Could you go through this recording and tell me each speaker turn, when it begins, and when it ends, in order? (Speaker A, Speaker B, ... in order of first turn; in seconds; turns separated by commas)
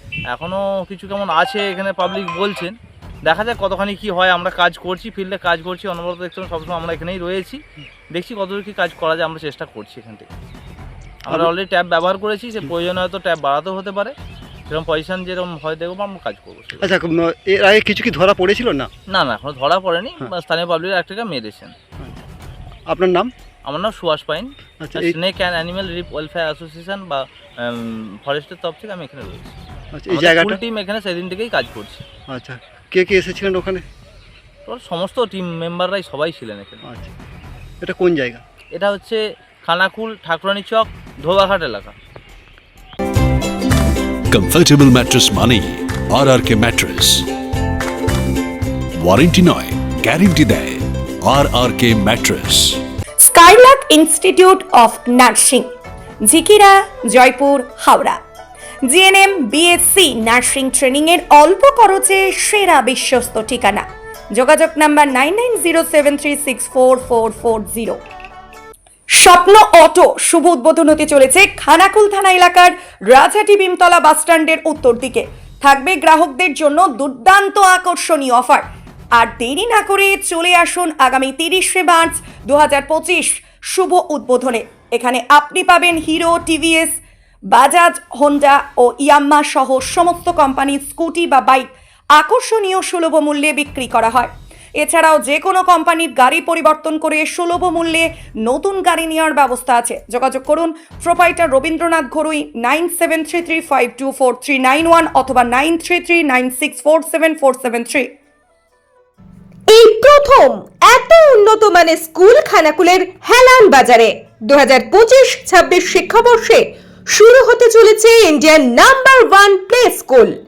Speaker A: 0.3-7.6, Speaker A: 8.1-10.3, Speaker A: 11.2-14.1, Speaker A: 14.7-16.9, Speaker B: 16.8-18.9, Speaker A: 19.1-21.7, Speaker B: 22.9-23.3, Speaker A: 23.6-29.6, Speaker B: 24.8-25.1, Speaker B: 29.9-30.6, Speaker A: 30.1-32.0, Speaker B: 32.3-33.8, Speaker A: 34.7-36.8, Speaker B: 36.8-37.1, Speaker B: 37.8-38.4, Speaker A: 38.7-41.9, Speaker C: 44.3-47.2, Speaker C: 49.0-52.8, Speaker D: 53.2-58.2, Speaker D: 58.9-68.0, Speaker D: 69.1-87.0, Speaker D: 87.5-108.1, Speaker E: 109.7-120.3